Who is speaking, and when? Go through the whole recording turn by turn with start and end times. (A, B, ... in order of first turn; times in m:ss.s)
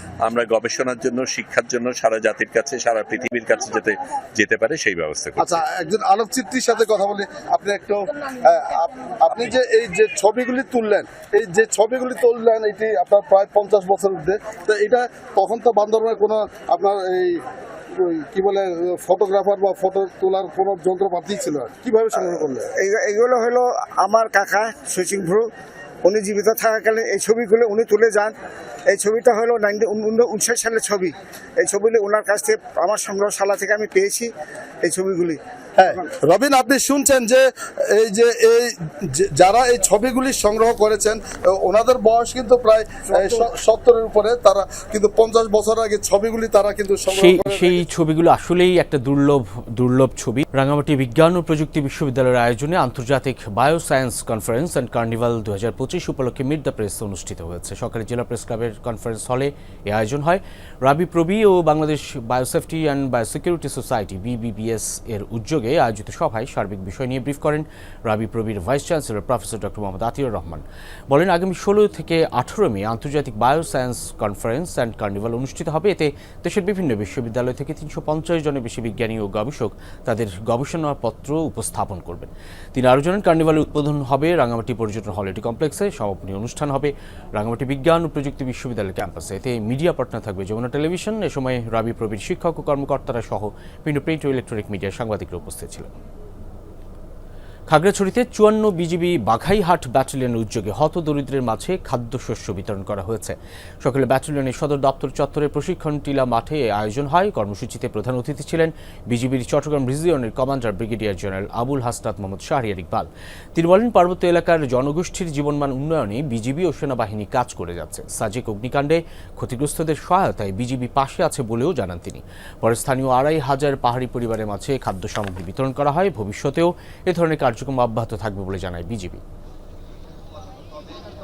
0:00.2-0:05.4 A
0:03.2-0:03.9 B
0:05.4-0:17.4 C
0:18.0-0:22.6 C
0:22.1-0:25.5 B
0:26.0-0:28.3 B
0:28.9-0:34.3 B
0:34.8-0:35.4 B
0:35.8-0:37.4 C
0:37.9-0:38.7 C
0:39.2-0:47.8 C
0:47.1-1:35.9 D
1:37.7-2:09.2 D